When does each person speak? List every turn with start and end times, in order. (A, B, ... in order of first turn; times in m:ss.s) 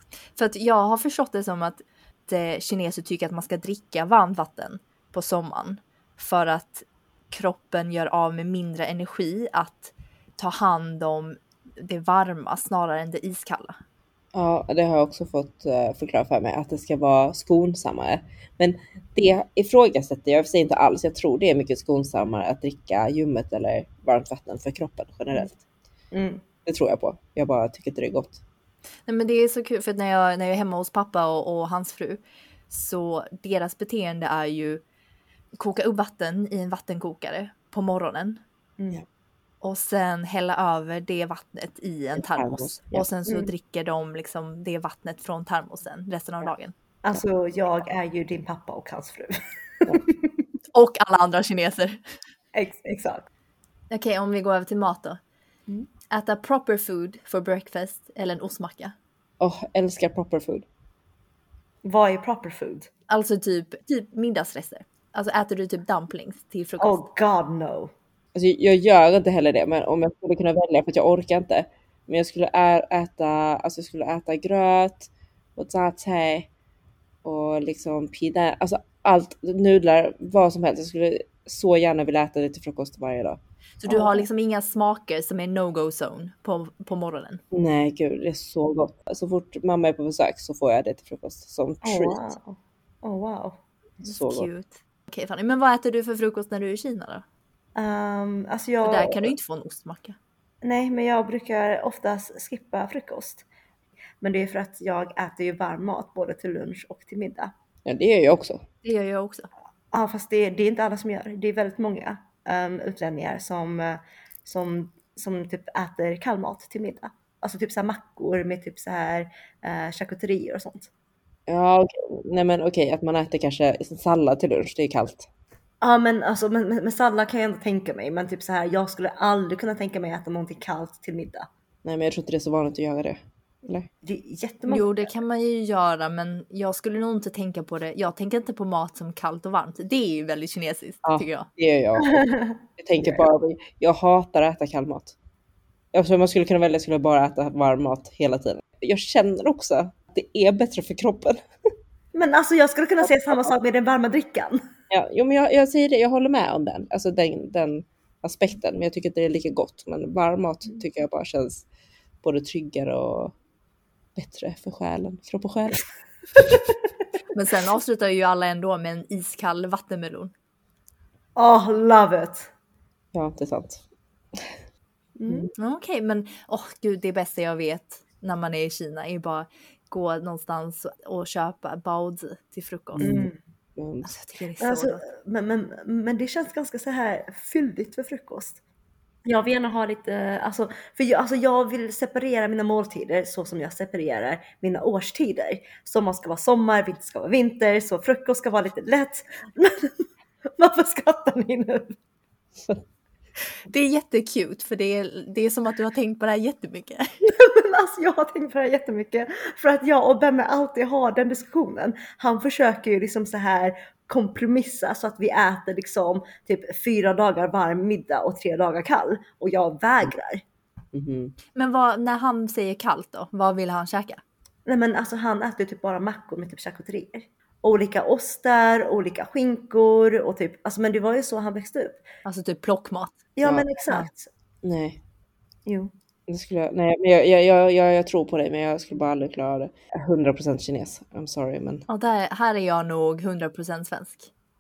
0:00.4-0:13.8 A
0:14.3-0:25.6 B
0:26.1-0:26.4 C
0:26.6-0:28.4 B
0:29.1-0:34.8 A
0:35.6-0:38.4 A
0:39.6-0:46.7 A
0:42.2-0:43.0 B
0:47.0-0:50.3 C
0:50.7-0:52.0 A
0:52.5-0:53.3 C
0:53.9-0:55.2 A
0:56.1-0:59.0 A
0:59.4-1:00.7 B
1:01.8-1:02.9 C
1:03.1-1:07.0 A
1:06.8-1:07.9 C
1:08.3-1:16.5 B
1:17.2-1:23.4 B
1:23.8-1:27.4 A
1:23.9-1:24.3 C
1:27.5-1:32.2 B
1:31.8-1:33.6 C
1:34.0-1:34.5 B
1:34.0-1:37.2 A
1:37.8-1:39.3 C
1:38.8-1:40.2 A
1:40.6-1:43.4 C
1:44.2-1:47.5 C
1:47.8-1:48.6 B
1:48.8-1:49.5 A
1:49.9-2:00.9 C
2:01.5-2:05.3 B
2:05.8-2:11.5 C
2:11.8-2:13.9 B
2:14.0-2:15.1 C
2:14.7-2:21.5 A
2:21.0-2:25.1 B
2:22.0-2:22.6 C
2:25.9-2:31.4 B
2:32.1-2:34.7 C
2:34.9-2:41.7 B
2:42.2-2:43.3 B
2:44.2-2:45.8 B
2:47.3-2:50.3 A
2:51.4-2:52.5 C
2:53.1-2:54.6 B
2:55.2-2:55.5 C
2:55.6-3:03.1 A
3:03.0-3:04.2 B
3:03.0-3:03.4 C
3:04.0-3:05.0 A
3:04.6-3:08.6 C
3:09.2-3:20.0 C
3:20.6-3:22.0 C
3:23.7-3:27.0 A
3:27.2-3:40.4 C
3:40.9-3:41.3 B
3:41.6-3:44.2 A
3:44.7-3:52.0 C
3:52.2-3:53.2 A
3:53.4-3:54.3 C
3:54.6-3:55.0 B
3:55.7-3:55.9 C
3:56.3-4:01.9 B
4:01.9-4:04.3 A